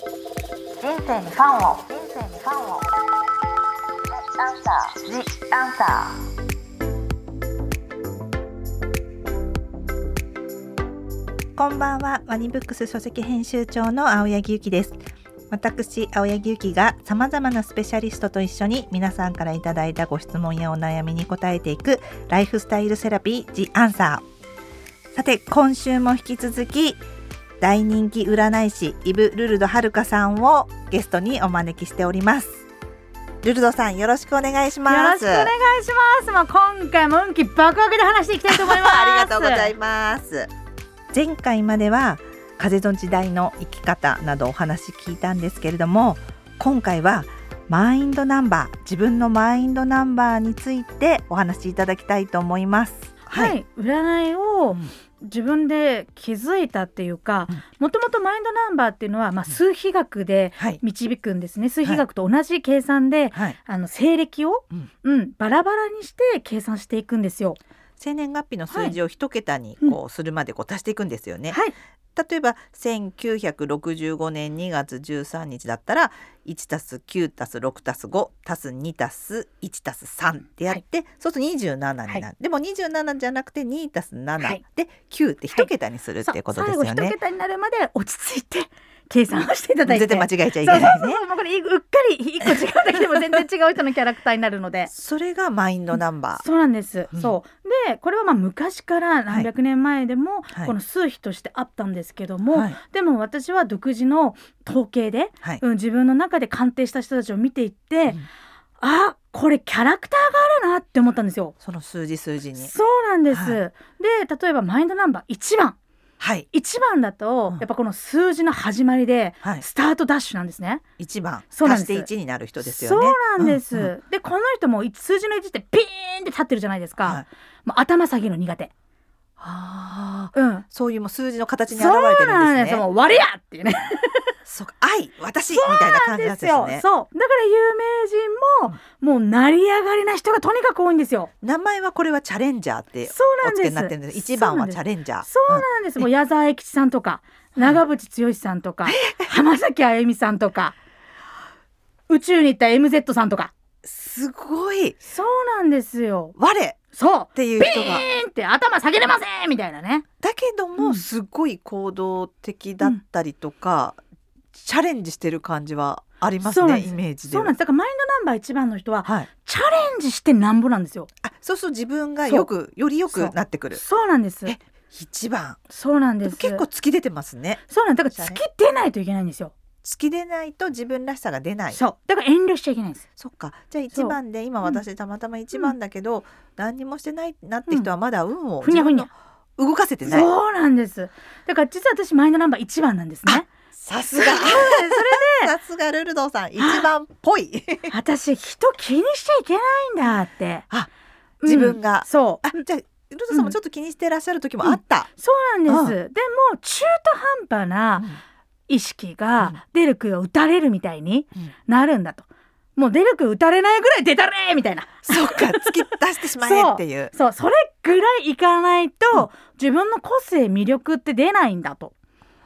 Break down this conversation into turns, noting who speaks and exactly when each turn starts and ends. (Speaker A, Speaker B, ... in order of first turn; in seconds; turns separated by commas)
Speaker A: 0.8-2.8, Speaker B: 1.9-2.4, Speaker B: 5.2-6.1, Speaker B: 11.6-15.0, Speaker B: 15.5-24.2, Speaker B: 25.1-27.0, Speaker B: 27.6-32.6, Speaker B: 33.4-35.5, Speaker C: 34.9-39.7, Speaker B: 38.5-40.5, Speaker B: 41.1-53.6, Speaker C: 53.3-67.6, Speaker B: 68.0-71.6, Speaker C: 68.7-69.0, Speaker B: 72.2-87.2, Speaker C: 86.2-94.9, Speaker B: 89.9-91.2, Speaker B: 94.9-96.5, Speaker C: 96.0-108.2, Speaker B: 97.1-97.4, Speaker B: 102.5-102.8, Speaker C: 108.8-111.6, Speaker B: 111.6-112.7, Speaker C: 112.6-115.8, Speaker B: 113.3-113.6, Speaker B: 116.2-116.5, Speaker C: 116.5-120.8, Speaker B: 121.0-123.9, Speaker C: 121.5-122.1, Speaker C: 122.6-128.7, Speaker B: 129.4-132.8, Speaker C: 130.3-130.7, Speaker C: 131.7-134.4, Speaker B: 134.5-136.8, Speaker C: 135.5-141.3, Speaker B: 141.4-146.1, Speaker C: 143.1-150.8, Speaker B: 147.6-147.8, Speaker B: 148.8-149.3, Speaker C: 152.1-153.5, Speaker B: 153.8-155.0, Speaker C: 155.1-156.4, Speaker B: 156.4-156.8, Speaker C: 156.9-160.1, Speaker B: 157.3-158.1, Speaker B: 160.2-164.0, Speaker C: 160.8-161.1, Speaker B: 164.5-167.5, Speaker C: 166.4-171.1, Speaker B: 169.0-169.3, Speaker B: 171.2-173.8, Speaker C: 173.1-174.6, Speaker B: 174.5-175.6, Speaker C: 175.7-176.6, Speaker B: 176.2-178.4, Speaker C: 177.7-179.5, Speaker B: 179.8-181.8, Speaker C: 181.7-183.1, Speaker B: 183.2-190.3, Speaker C: 183.9-184.8, Speaker C: 188.6-189.1, Speaker C: 190.1-193.5, Speaker B: 193.3-197.9, Speaker C: 194.1-195.5, Speaker C: 196.6-196.9, Speaker C: 197.9-200.7, Speaker C: 201.4-202.6, Speaker B: 201.4-205.1, Speaker C: 204.6-208.1, Speaker B: 205.7-205.9, Speaker C: 208.7-215.9, Speaker B: 215.1-217.1, Speaker C: 216.4-221.9